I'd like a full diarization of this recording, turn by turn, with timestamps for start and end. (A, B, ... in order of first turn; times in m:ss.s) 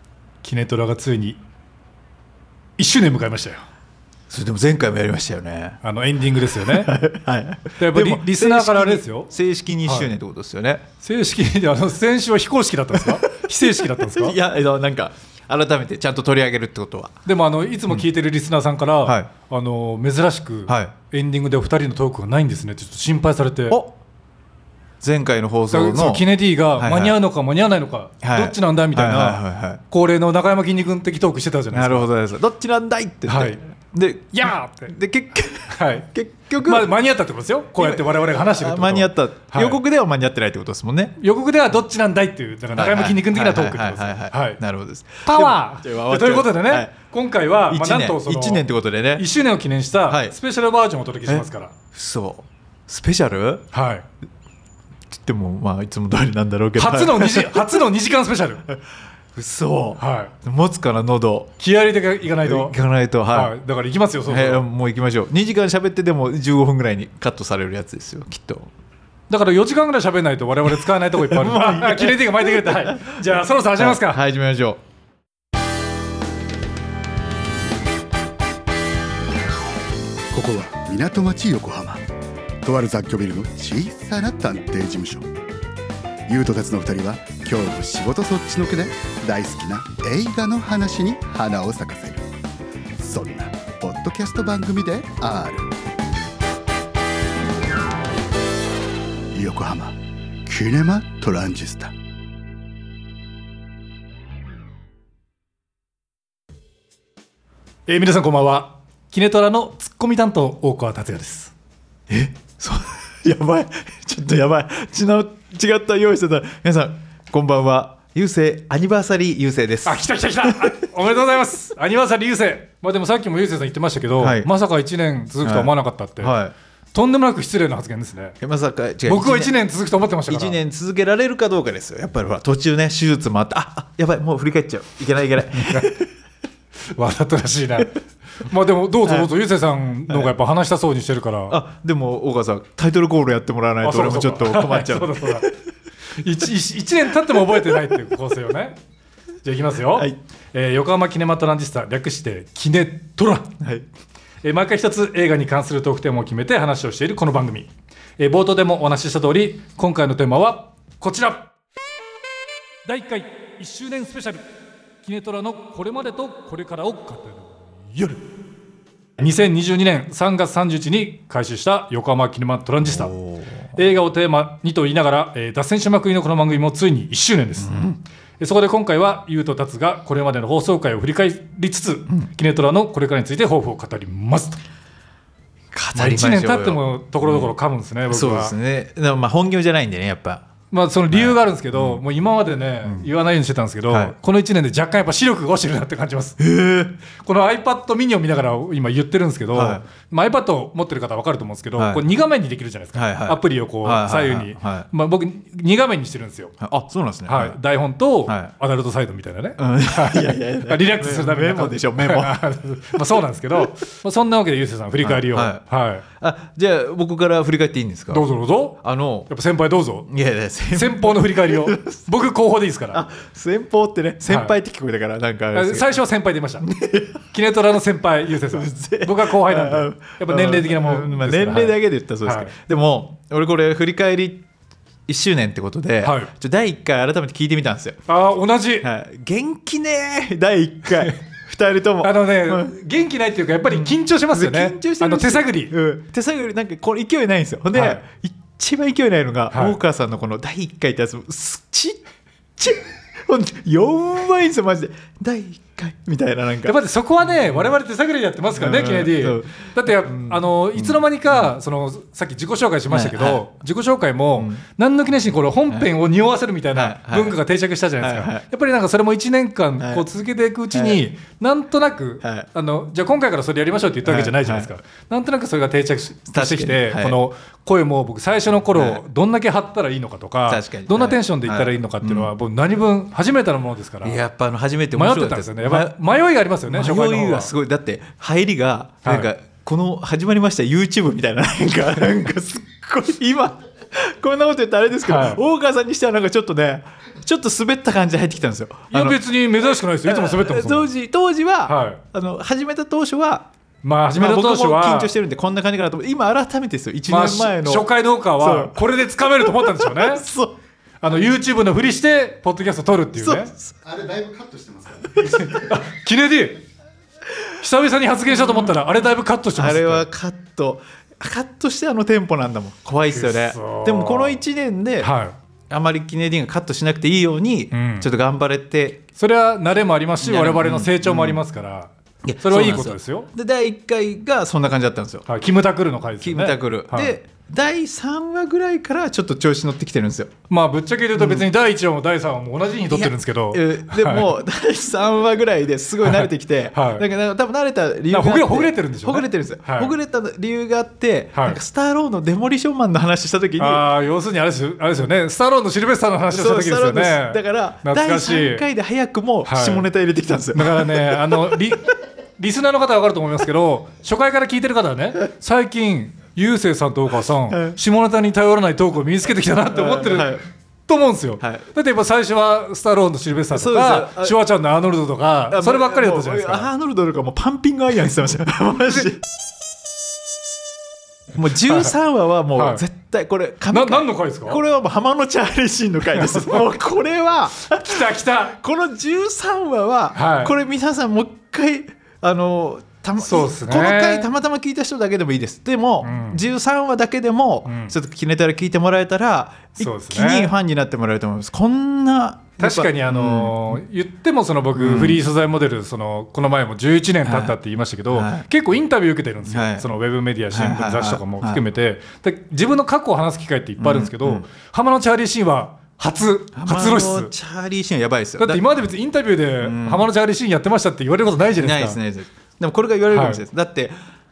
0:00.4-0:01.4 A
0:02.8-0:03.6 A
0:04.3-0:05.8 B
0:05.8-0:07.0 A
0:06.4-0:10.8 B
0:07.8-0:09.3 A
0:09.8-0:10.1 A
0:11.0-0:14.4 A
0:13.0-0:17.1 B
0:17.2-0:23.8 A
0:20.7-0:20.9 B
0:25.0-0:26.2 B
0:25.7-0:32.1 A
0:26.8-0:27.2 B
0:28.2-0:29.8 B
0:31.7-0:36.9 B
0:33.3-0:33.6 A
0:34.3-0:35.0 A
0:35.7-0:36.1 A
0:36.6-0:39.8 A
0:37.8-0:41.2 B
0:41.2-0:44.6 A
0:42.8-0:46.9 B
0:45.2-0:48.6 A
0:47.7-0:49.2 B
0:49.2-0:51.7 A
0:50.1-0:50.3 B
0:51.3-0:53.6 B
0:53.7-0:54.1 A
0:55.1-0:57.8 B
0:56.8-0:58.6 A
0:59.3-1:01.5 B
1:00.0-1:00.3 A
1:01.6-1:02.8 A
1:02.4-1:03.5 B
1:03.3-1:04.6 A
1:04.3-1:08.7 B
1:09.3-1:14.2 A
1:11.1-1:13.2 B
1:13.8-1:14.8 B
1:20.3-1:22.0 C
1:22.6-1:25.3 C
1:26.3-1:32.3 C
1:33.0-1:35.7 C
1:39.3-1:41.9 C
1:47.9-1:51.5 A
1:52.1-2:00.7 B
1:59.8-2:06.4 A
2:04.2-2:04.5 B
2:05.4-2:06.5 B
2:06.9-2:08.4 A
2:08.4-2:09.5 B
2:09.1-2:10.6 A
2:10.3-2:16.1 B
2:17.0-2:21.6 A
2:20.1-2:20.3 B
2:21.5-2:25.5 B
2:23.8-2:25.5 A
2:26.2-2:28.8 A
2:27.5-2:28.0 B
2:29.4-2:33.6 A
2:33.6-2:33.9 B
2:34.4-2:41.5 A
2:42.8-2:44.5 A
2:45.0-2:48.3 A
2:49.2-2:53.1 A
2:52.8-2:53.7 B
2:53.8-3:04.6 A
2:57.6-2:58.0 B
3:05.7-3:07.5 B
3:06.0-3:08.5 A
3:08.1-3:10.4 B
3:10.7-3:16.4 A
3:11.1-3:12.0 B
3:16.4-3:17.0 B
3:17.2-3:26.6 A
3:19.5-3:19.9 B
3:21.8-3:22.0 B
3:23.0-3:24.9 B
3:26.6-3:27.6 B
3:27.3-3:36.0 A
3:29.6-3:32.4 B
3:35.0-3:35.6 B
3:36.2-3:38.3 B
3:38.1-3:40.1 A
3:38.8-3:39.3 B
3:40.1-3:42.0 B
3:40.7-3:43.0 A
3:42.9-3:46.0 B
3:44.3-3:44.5 A
3:45.5-3:46.7 A
3:46.6-3:47.2 B
3:47.3-3:52.5 A
3:48.5-3:54.4 B
3:55.1-3:58.0 B
3:56.0-3:56.3 A
3:58.1-3:58.9 A
3:58.8-4:02.8 B
4:02.0-4:05.7 A
4:03.7-4:12.0 B
4:07.7-4:08.0 A
4:09.5-4:09.8 A
4:12.6-4:16.8 B
4:16.6-4:44.2 A
4:17.4-4:17.7 B
4:18.6-4:21.5 B
4:22.9-4:23.4 B
4:26.7-4:27.4 B
4:28.0-4:28.4 B
4:29.8-4:30.0 B
4:30.7-4:31.0 B
4:32.2-4:32.5 B
4:34.0-4:34.7 B
4:36.3-4:37.2 B
4:38.7-4:39.0 B
4:40.5-4:42.3 B
4:44.0-4:46.0 B
4:45.0-4:47.5 A
4:46.7-4:59.2 B
4:55.0-4:55.4 A
4:58.9-5:00.9 A
5:00.0-5:03.5 B
5:01.7-5:02.0 A
5:03.8-5:05.1 A
5:04.1-5:10.5 B
5:07.1-5:10.2 A
5:11.0-5:13.5 A
5:13.2-5:13.8 B
5:13.8-5:15.6 C
5:15.2-5:15.5 B
5:15.5-5:16.6 A
5:17.6-5:20.1 A
5:18.4-5:18.7 B
5:19.6-5:25.1 B
5:23.1-5:24.4 A
5:25.0-5:25.4 A
5:25.7-5:29.0 B
5:27.7-5:28.1 A
5:29.2-5:31.9 A
5:30.2-5:31.4 B
5:32.2-5:35.2 B
5:32.4-5:33.3 A
5:35.3-5:37.1 A
5:36.2-5:40.3 B
5:40.5-5:44.4 A
5:41.2-5:41.5 B
5:42.9-5:53.8 B
5:46.0-5:47.1 A
5:48.1-5:50.0 A
5:53.6-5:58.7 A
5:56.3-6:01.2 B
5:59.4-5:59.9 A
6:00.5-6:16.7 A
6:07.5-6:07.8 B
6:09.7-6:10.4 B
6:11.4-6:11.6 B
6:13.5-6:14.4 B
6:15.5-6:19.2 B
6:21.3-6:43.8 B
6:21.6-6:21.9 A
6:22.6-6:22.8 A
6:23.7-6:24.6 A
6:26.1-6:26.7 A
6:27.7-6:28.6 A
6:30.1-6:30.5 A
6:33.2-6:34.3 A
6:36.0-6:36.4 A
6:37.7-6:37.9 A
6:39.8-6:40.5 A
6:42.6-6:57.3 A
6:44.8-6:45.2 B
6:47.2-6:47.6 B
6:48.1-6:48.5 B
6:49.5-6:49.9 B
6:50.5-6:51.6 B
6:53.8-6:54.4 B
6:56.6-6:58.7 B
6:58.4-7:02.0 A
6:59.6-7:00.1 B
7:01.6-7:03.9 B
7:03.1-7:03.4 A